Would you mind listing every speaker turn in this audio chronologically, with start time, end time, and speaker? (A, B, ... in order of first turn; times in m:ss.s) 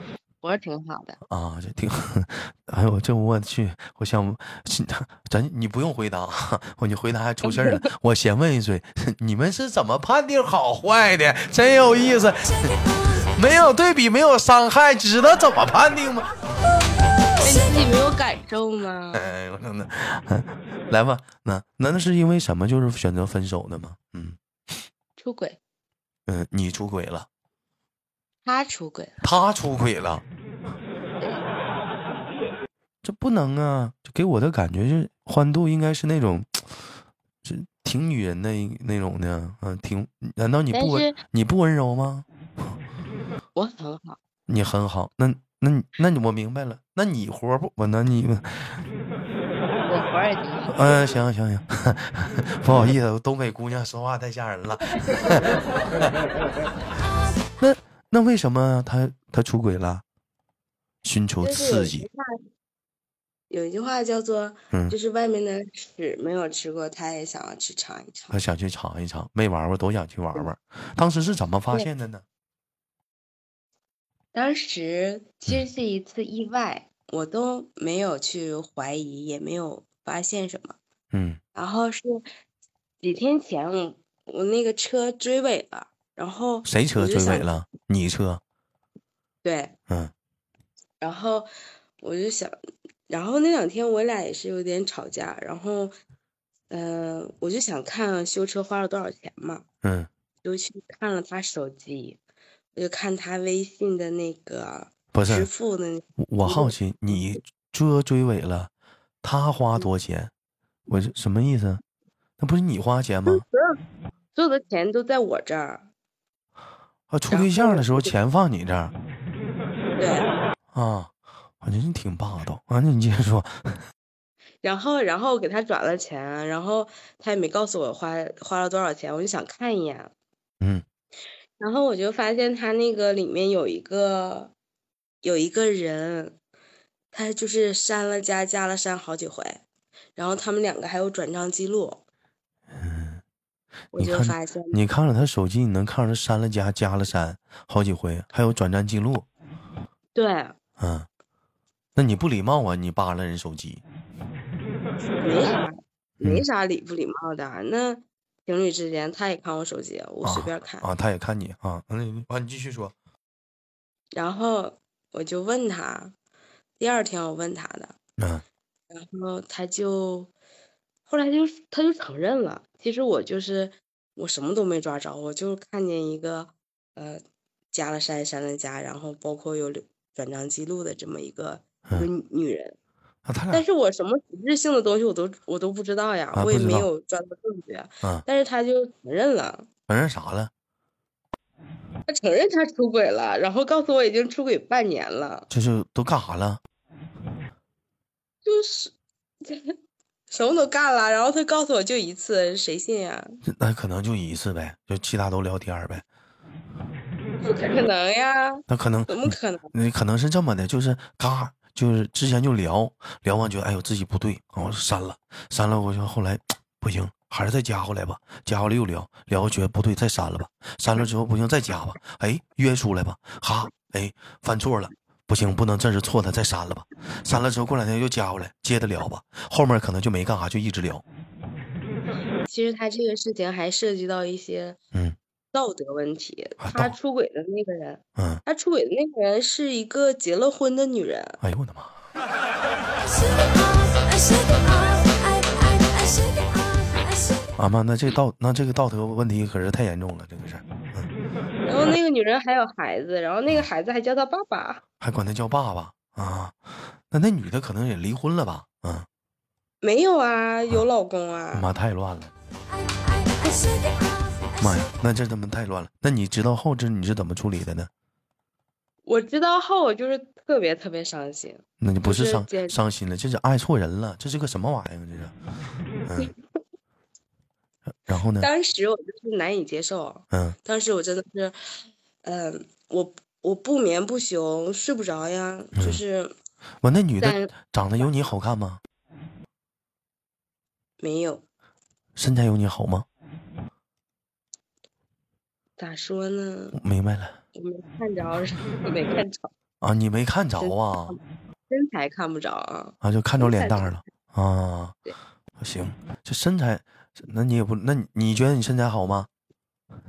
0:00.4-0:01.2 A
0:01.2-0:16.3 B
0:07.4-0:07.9 A
0:17.4-0:19.2 A
0:19.1-0:24.4 B
0:25.2-0:25.6 A
0:26.3-0:27.3 B
0:28.4-0:29.2 A
0:29.2-0:30.2 B
0:33.0-0:36.6 B
0:37.4-0:42.2 B
0:40.7-0:41.2 A
0:43.6-0:44.2 A
0:44.5-0:48.8 B
0:49.8-0:51.2 A
0:50.7-0:56.1 B
0:57.6-1:00.0 B
1:01.0-1:02.1 B
1:01.4-1:02.4 A
1:03.5-1:08.3 A
1:08.3-1:12.2 B
1:14.3-1:20.8 A
1:21.1-1:21.4 B
1:21.5-1:22.2 A
1:23.0-1:27.5 A
1:26.6-1:28.4 B
1:29.4-1:29.7 A
1:31.0-1:31.5 A
1:32.0-1:32.6 A
1:33.1-1:35.9 A
1:36.7-1:39.6 A
1:39.8-1:40.1 B
1:40.4-1:42.2 A
1:42.7-1:47.2 A
1:45.1-1:45.5 B
1:46.2-1:48.7 B
1:49.2-1:50.3 B
1:50.9-1:51.8 B
1:52.4-1:53.4 B
1:53.2-1:53.8 A
1:54.4-1:55.9 A
1:57.1-1:58.9 B
1:57.3-1:58.1 A
2:00.0-2:00.3 A
2:00.7-2:03.8 B
2:04.6-2:10.1 A
2:11.6-2:14.5 A
2:15.2-2:16.4 A
2:17.1-2:19.6 A
2:20.2-2:22.0 A
2:22.7-2:23.2 B
2:23.9-2:24.8 A
2:24.0-2:29.2 B
2:30.1-2:30.6 A
2:30.8-2:31.1 B
2:32.0-2:33.8 B
2:35.2-2:40.8 A
2:40.2-2:42.9 B
2:44.1-2:46.1 A
2:46.8-2:47.9 A
2:48.2-2:48.4 B
2:48.9-2:50.3 A
2:51.1-2:57.2 A
2:57.7-3:02.8 A
3:03.2-3:03.6 B
3:03.5-3:09.7 A
3:06.3-3:06.9 B
3:09.9-3:10.5 B
3:12.1-3:15.5 A
3:15.5-3:16.6 B
3:18.4-3:19.7 A
3:20.3-3:23.4 A
3:23.4-3:26.0 B
3:27.4-3:29.7 A
3:28.7-3:51.0 B
3:52.4-3:54.8 A
3:55.5-4:01.4 A
3:56.6-3:56.9 B
3:58.2-3:58.4 B
4:01.4-4:01.9 B
4:07.6-4:11.1 B
4:11.6-4:14.8 A
4:15.0-4:16.6 B
4:17.1-4:19.1 B
4:19.8-4:21.7 A
4:21.5-4:22.3 B
4:24.6-4:27.9 B
4:29.0-4:32.8 A
4:31.8-4:35.3 B
4:36.0-4:36.3 B
4:38.0-4:38.5 B
4:38.4-4:41.6 A
4:42.2-4:46.3 A
4:45.8-4:46.0 B
4:46.8-4:48.8 B
4:47.2-4:47.5 A
4:51.0-4:51.4 A
4:52.2-4:53.0 B
4:55.8-4:56.8 A
4:56.7-4:57.4 B
4:57.5-4:59.5 A
4:59.8-5:01.2 B
5:00.6-5:03.9 A
5:03.0-5:05.0 B
5:05.6-5:09.3 B